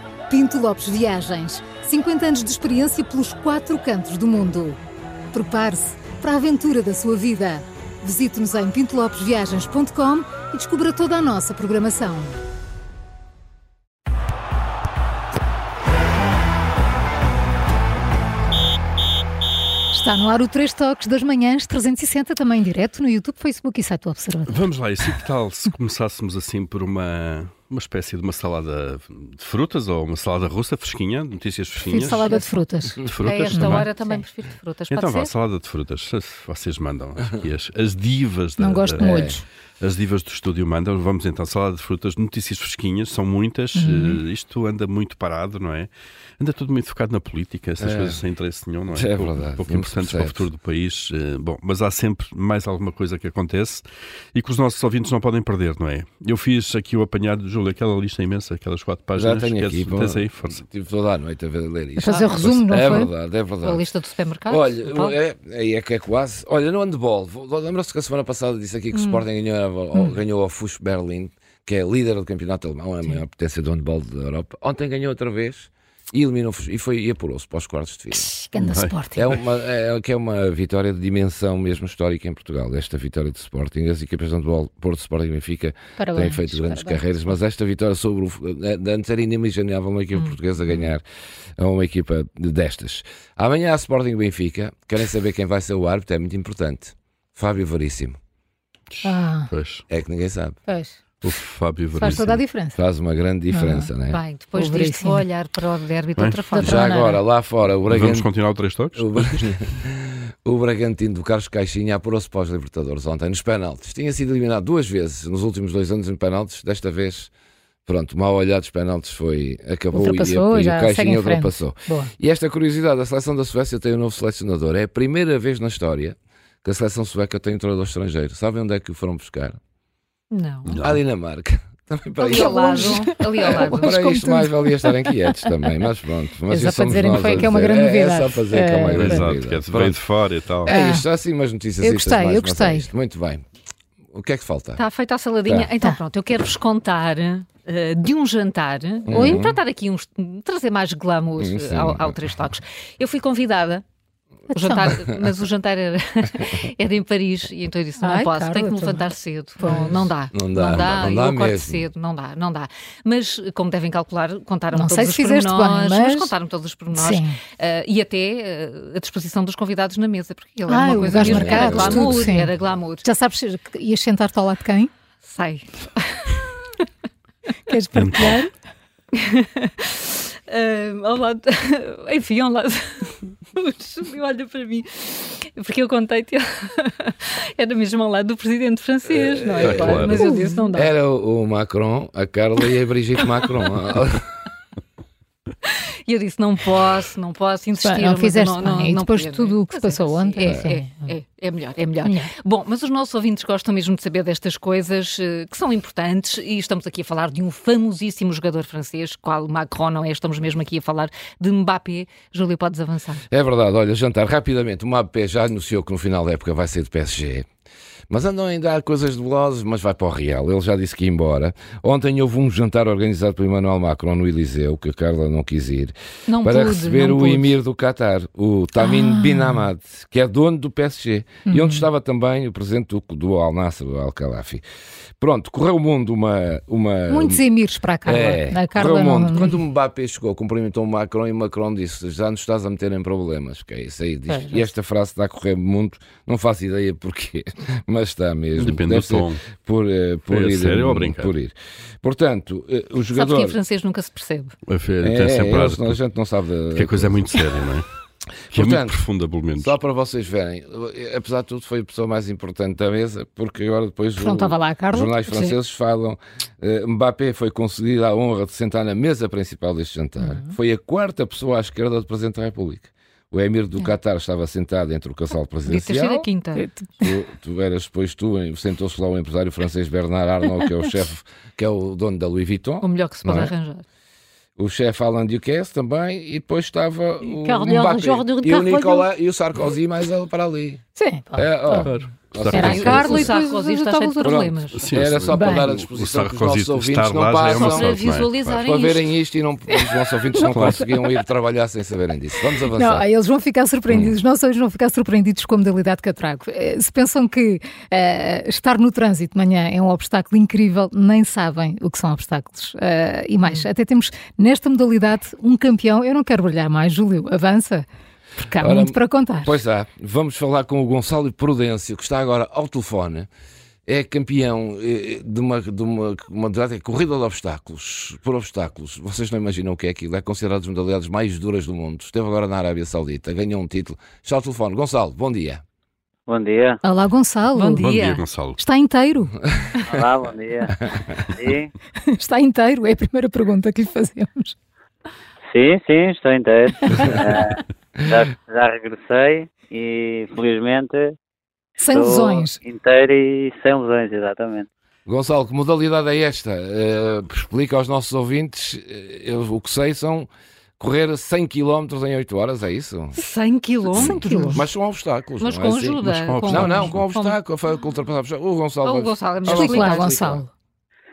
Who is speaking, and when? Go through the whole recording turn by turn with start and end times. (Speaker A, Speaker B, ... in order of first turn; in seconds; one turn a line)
Speaker A: 0.3-4.8
Speaker A: 5.3-12.4
Speaker A: 19.9-24.6
Speaker B: 24.5-32.4
Speaker A: 31.8-33.0
Speaker C: 32.0-32.5
Speaker B: 33.0-33.9
Speaker C: 33.2-35.3
Speaker A: 33.5-34.2
Speaker B: 34.9-39.3
Speaker A: 38.6-39.4
Speaker D: 39.0-39.4
Speaker B: 39.8-60.6
Speaker A: 43.7-44.2
Speaker D: 47.8-48.2
Speaker D: 48.9-50.5
Speaker D: 59.1-63.9
Speaker A: 62.0-63.1
Speaker C: 62.1-62.4
Speaker C: 63.6-65.2
Speaker D: 64.5-78.3
Speaker A: 68.9-69.2
Speaker A: 78.1-79.2
Speaker B: 78.5-79.0
Speaker D: 79.1-91.0
Speaker A: 86.0-87.3
Speaker D: 91.6-98.2
Speaker B: 98.9-99.8
Speaker A: 99.0-99.5
Speaker D: 99.9-100.6
Speaker A: 100.7-101.0
Speaker B: 101.2-102.4
Speaker A: 102.0-102.8
Speaker D: 102.7-104.2
Speaker A: 103.5-103.9
Speaker C: 104.1-107.2
Speaker A: 104.5-105.2
Speaker B: 106.2-106.4
Speaker D: 106.5-108.3
Speaker A: 106.6-107.2
Speaker B: 107.9-109.4
Speaker D: 108.9-117.3
Speaker D: 117.8-129.6
Speaker A: 119.9-122.1
Speaker C: 130.3-130.8
Speaker B: 130.7-131.0
Speaker D: 130.8-140.0
Speaker A: 132.2-135.5
Speaker C: 132.2-133.9
Speaker A: 136.5-139.3
Speaker B: 138.9-140.7
Speaker D: 140.6-143.4
Speaker A: 140.7-141.1
Speaker A: 141.8-142.9
Speaker D: 144.1-144.8
Speaker C: 144.8-153.8
Speaker D: 149.1-149.6
Speaker D: 151.4-152.2
Speaker A: 154.5-154.9
Speaker C: 154.5-173.0
Speaker A: 158.0-160.0
Speaker D: 160.3-161.9
Speaker A: 164.7-166.3
Speaker A: 166.9-167.4
Speaker A: 170.7-174.9
Speaker D: 171.0-172.3
Speaker C: 175.2-176.5
Speaker A: 177.7-178.5
Speaker B: 177.9-178.4
Speaker C: 179.2-190.9
Speaker D: 189.2-190.1
Speaker B: 189.6-190.2
Speaker A: 190.1-190.7
Speaker D: 190.7-194.2
Speaker C: 195.7-213.2
Speaker A: 197.8-201.1
Speaker A: 202.0-202.3
Speaker D: 213.3-217.4
Speaker D: 218.1-234.6
Speaker C: 226.3-227.6
Speaker A: 228.8-229.7
Speaker A: 231.4-231.8
Speaker D: 235.2-237.4
Speaker A: 237.1-239.6
Speaker D: 238.0-253.6
Speaker C: 244.3-244.6
Speaker B: 248.6-249.4
Speaker B: 250.3-251.3
Speaker C: 253.1-254.5
Speaker B: 254.7-256.0
Speaker D: 255.0-257.4
Speaker B: 256.7-257.9
Speaker D: 258.5-259.0
Speaker B: 258.5-259.7
Speaker D: 259.6-276.3
Speaker A: 264.2-265.6
Speaker A: 270.2-270.5
Speaker C: 275.6-276.7
Speaker A: 276.6-277.1
Speaker D: 277.0-283.5
Speaker C: 282.8-283.8
Speaker D: 284.6-290.8
Speaker C: 287.2-289.0
Speaker A: 290.9-291.9
Speaker D: 291.3-293.3
Speaker B: 291.8-293.3
Speaker A: 292.5-294.5
Speaker C: 292.5-294.8
Speaker D: 294.2-298.0
Speaker B: 294.7-298.6
Speaker A: 295.3-295.7
Speaker C: 297.5-299.0
Speaker D: 298.6-303.1
Speaker B: 300.4-300.8
Speaker A: 302.7-317.9
Speaker D: 303.9-304.1
Speaker A: 318.4-319.6
Speaker D: 318.6-323.3
Speaker D: 323.9-335.6
Speaker E: 336.3-336.8
Speaker A: 336.8-337.9
Speaker C: 337.5-338.2
Speaker B: 337.8-338.6
Speaker A: 338.6-339.4
Speaker E: 339.9-341.7
Speaker A: 342.1-344.6
Speaker E: 345.5-351.1
Speaker A: 351.8-352.6
Speaker E: 351.9-354.7
Speaker D: 355.1-363.2
Speaker C: 363.1-364.6
Speaker D: 363.9-370.4
Speaker A: 364.0-364.6
Speaker C: 365.4-367.4
Speaker B: 366.1-367.0
Speaker C: 368.8-370.1
Speaker A: 369.5-370.5